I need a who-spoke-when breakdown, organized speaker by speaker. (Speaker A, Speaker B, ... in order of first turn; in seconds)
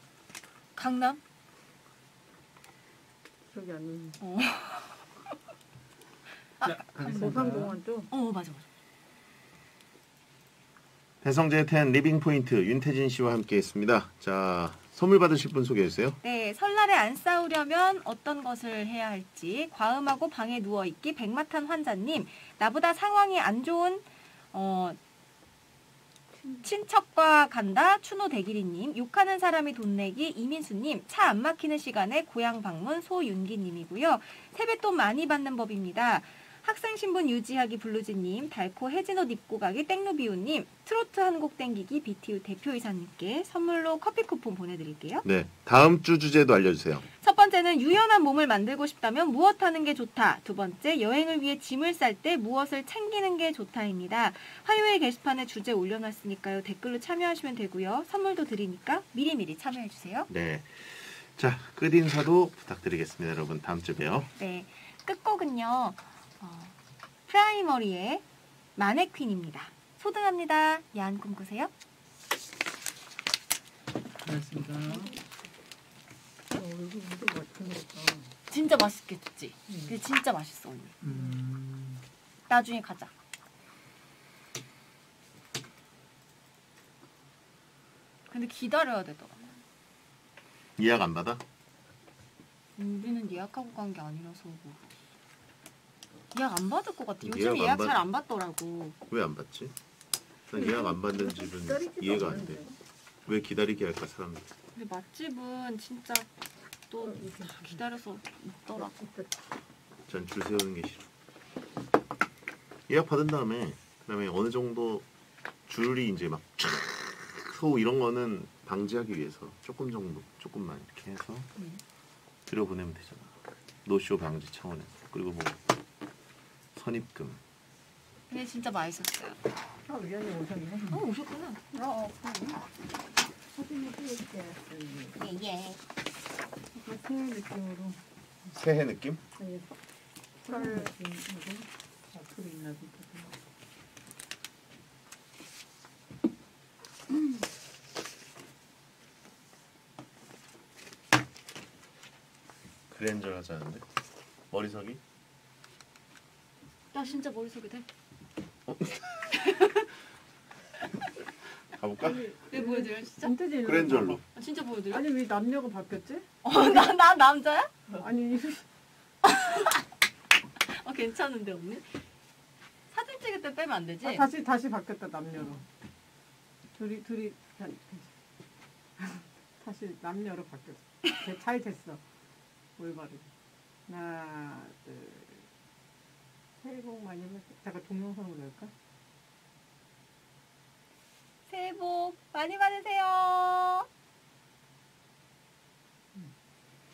Speaker A: 0.8-1.2, 4.2-5.0, 6.6-7.4, 8.1-8.6, 16.2-25.0, 26.6-45.2, 47.2-60.3, 64.4-66.7, 67.3-68.2, 68.8-71.7, 78.5-80.9, 82.5-83.1, 88.3-89.5, 92.8-94.8, 96.3-99.0, 104.7-106.3, 106.9-108.9, 128.3-129.4, 130.9-131.6, 135.2-135.8, 156.9-157.9, 159.4-159.8, 162.5-163.4, 164.3-165.1, 166.4-167.7, 169.2-169.8, 170.6-172.0, 172.9-174.3, 191.5-193.9
Speaker B: 3.5-4.2, 7.0-8.1, 76.5-78.3, 79.7-80.0, 100.5-102.7, 107.0-107.7, 108.7-109.3, 129.8-131.0, 131.7-132.6, 133.5-135.2, 136.7-138.0, 139.4-139.7, 140.4-143.3, 162.0-164.2, 164.9-166.3, 167.9-168.6, 174.0-175.6, 176.7-178.1, 179.0-182.0, 182.8-183.3, 183.9-185.4, 186.6-188.7
Speaker C: 6.6-7.8, 74.2-75.1, 81.0-82.0
Speaker D: 11.2-16.2, 45.2-47.0, 60.3-64.3, 90.8-91.4, 97.2-98.0, 99.1-99.7, 100.5-102.6, 103.2-104.4, 110.1-111.1, 112.9-115.0, 115.7-121.5, 122.5-123.3, 123.8-125.6, 126.7-127.4, 138.5-139.2, 152.9-153.8, 154.5-155.0, 158.7-159.3, 161.8-162.2, 163.6-164.2